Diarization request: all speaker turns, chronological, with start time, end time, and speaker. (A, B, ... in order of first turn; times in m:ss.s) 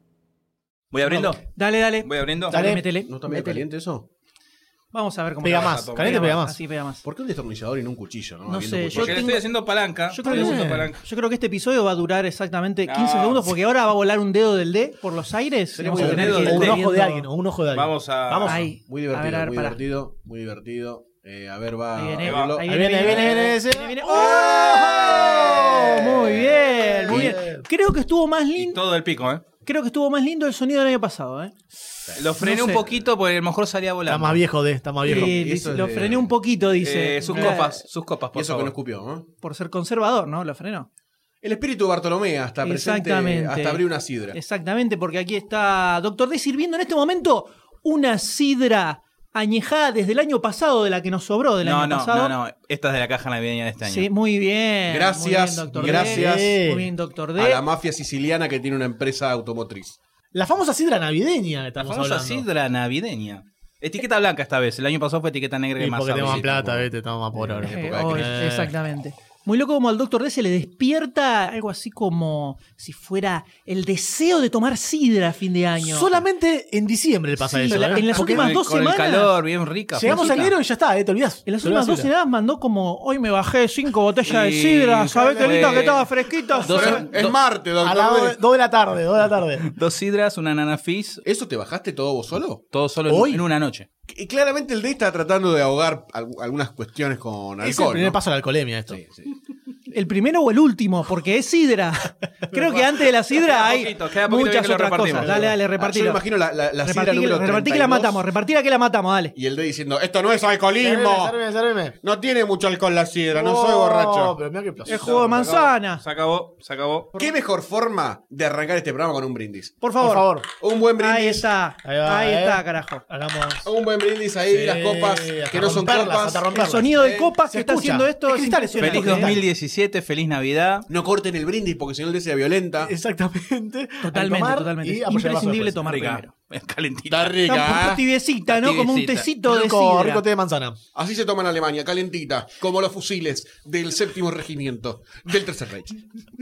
0:00.9-0:01.4 A
0:01.1-0:03.6 B
0:02.0-0:02.6 A
0:02.5-0:02.9 C
0:03.0-0:04.1 D
0:04.9-0:07.0 B
0:05.4-0:06.6 C
0:05.4-0:06.4 A
0:07.0-0:09.2 D
0:08.5-0:09.5 B
0:09.0-0:11.0 A
0:10.1-0:17.3 B
0:10.2-0:10.9 C
0:12.8-0:13.5 A
0:15.7-0:16.8 D
0:15.9-0:18.7 C
0:15.9-0:16.8 A
0:17.7-0:18.5 A
0:18.5-0:19.8 B
0:18.5-0:23.4 D
0:21.9-0:28.8 B
0:22.2-0:22.6 A
0:22.6-0:27.6 C
0:24.3-0:24.7 D
0:25.3-0:25.6 D
0:28.6-0:29.4 A
0:29.6-0:31.5 B
0:32.1-0:34.4 A
0:32.4-0:32.8 B
0:34.0-0:35.4 C
0:35.0-0:36.3 D
0:35.0-0:37.8 B
0:36.8-0:38.7 A
0:38.3-0:39.3 D
0:39.4-0:40.9 B
0:41.4-0:44.4 D
0:42.6-0:52.4 B
0:51.6-0:54.1 A
0:53.8-0:57.6 B
0:54.9-0:56.6 D
0:55.8-0:56.9 C
0:57.4-1:00.0 D
1:00.3-1:02.5 C
1:01.8-1:06.8 A
1:05.8-1:08.7 C
1:06.2-1:06.7 D
1:07.3-1:08.4 D
1:07.6-1:16.2 B
1:15.8-1:18.6 C
1:17.4-1:19.4 B
1:17.7-1:20.5 A
1:19.9-1:22.1 C
1:20.0-1:20.5 B
1:21.4-1:27.0 B
1:24.2-1:26.1 A
1:25.0-1:26.0 C
1:26.6-1:27.4 A
1:26.7-1:28.4 D
1:27.8-1:29.7 C
1:29.6-1:31.2 A
1:31.2-1:32.6 D
1:32.7-1:33.8 A
1:33.0-1:33.4 C
1:34.1-1:38.2 D
1:37.6-1:39.0 C
1:38.9-1:39.3 D
1:39.9-1:46.2 B
1:43.4-1:45.4 A
1:45.2-1:48.2 D
1:46.8-1:49.3 B
1:49.4-1:51.4 D
1:50.8-1:52.0 C
1:52.0-1:54.3 D
1:53.3-1:55.1 C
1:54.8-1:56.0 B
1:55.0-1:57.1 A
1:57.2-1:59.8 D
1:59.8-2:00.3 B
2:00.0-2:00.4 C
2:00.6-2:01.4 D
2:01.0-2:03.0 B
2:01.8-2:03.7 C
2:03.6-2:07.3 D
2:04.5-2:09.4 C
2:06.5-2:09.4 B
2:08.8-2:10.9 A
2:10.9-2:12.9 D
2:12.8-2:15.9 C
2:14.0-2:16.2 B
2:15.8-2:17.4 A
2:17.1-2:18.0 D
2:17.4-2:20.2 B
2:18.5-2:19.3 A
2:19.4-2:20.8 C
2:20.9-2:26.0 D